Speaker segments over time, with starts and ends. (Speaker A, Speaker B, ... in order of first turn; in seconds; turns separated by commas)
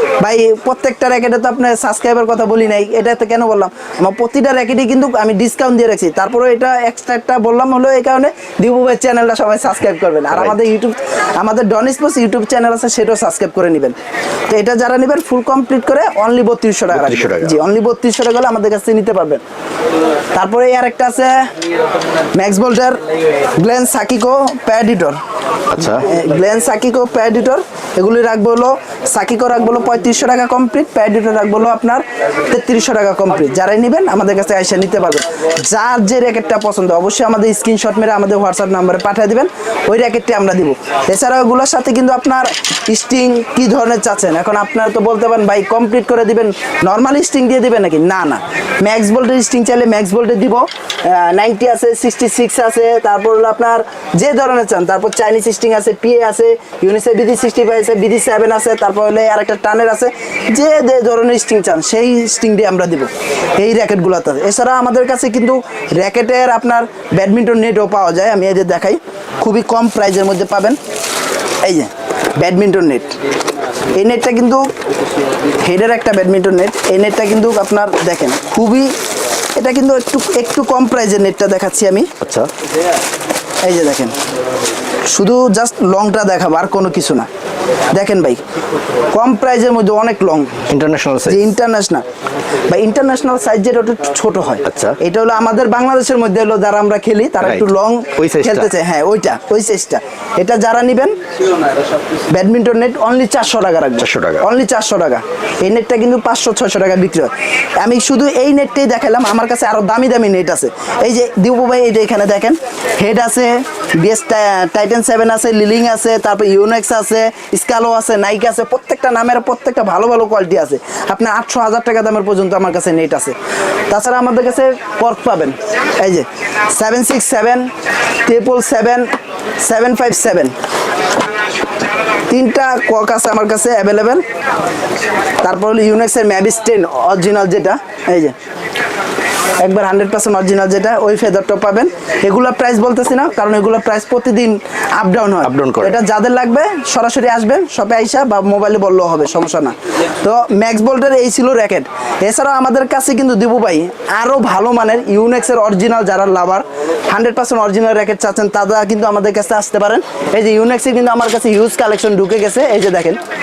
Speaker A: 0.2-13.9, Speaker B: 10.3-10.6, Speaker A: 14.5-19.4, Speaker B: 16.9-17.6, Speaker A: 20.3-21.5, Speaker A: 22.3-23.0, Speaker A: 23.6-25.2, Speaker B: 25.7-26.1, Speaker A: 25.8-70.8, Speaker A: 71.6-73.2, Speaker A: 73.9-74.7, Speaker A: 75.6-78.9, Speaker A: 79.5-82.1, Speaker B: 82.2-82.5, Speaker A: 83.6-84.2, Speaker A: 85.1-87.3, Speaker A: 87.9-88.4, Speaker A: 89.1-90.6, Speaker B: 90.7-91.5, Speaker A: 91.2-92.0, Speaker A: 92.7-101.1, Speaker B: 94.6-95.0, Speaker B: 97.4-98.7, Speaker A: 102.3-123.3, Speaker B: 104.0-104.5, Speaker A: 123.9-127.7, Speaker A: 128.2-130.5, Speaker A: 132.3-134.2, Speaker A: 135.4-138.3, Speaker A: 139.6-163.2, Speaker B: 145.4-146.0